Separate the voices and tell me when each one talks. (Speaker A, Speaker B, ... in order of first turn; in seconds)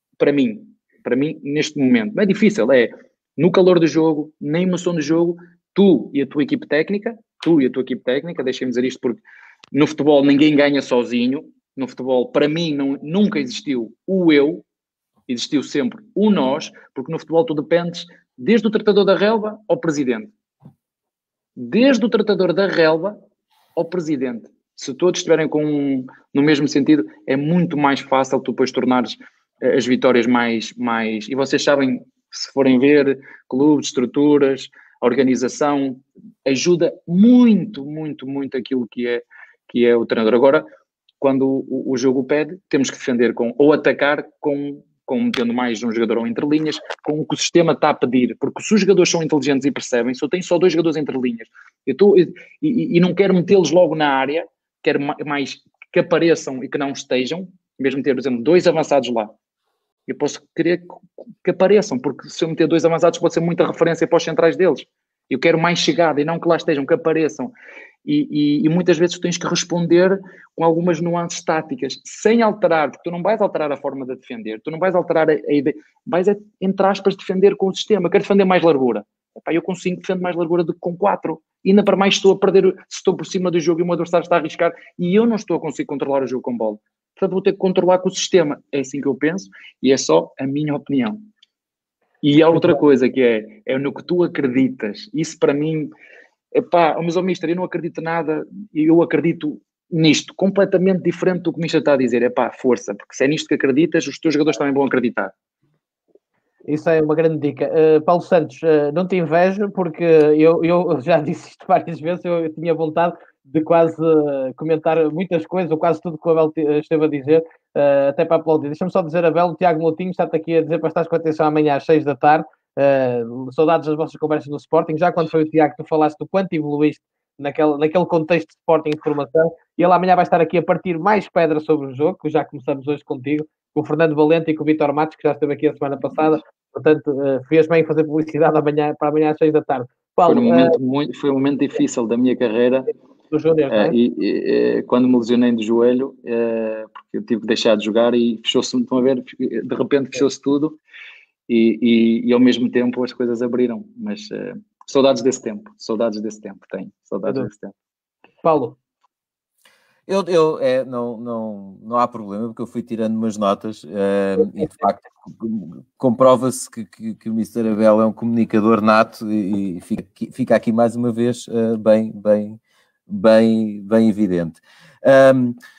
Speaker A: 0.2-14.6, 15.3-20.3, 21.6-23.2, 23.8-40.6, 41.2-59.3, 60.1-67.5, 68.0-91.2, 92.2-95.9, 96.5-105.3, 140.3-142.9, 143.7-150.8, 151.5-157.7
Speaker B: 106.7-140.8, 143.3-143.9, 158.4-158.8
Speaker C: 160.1-175.6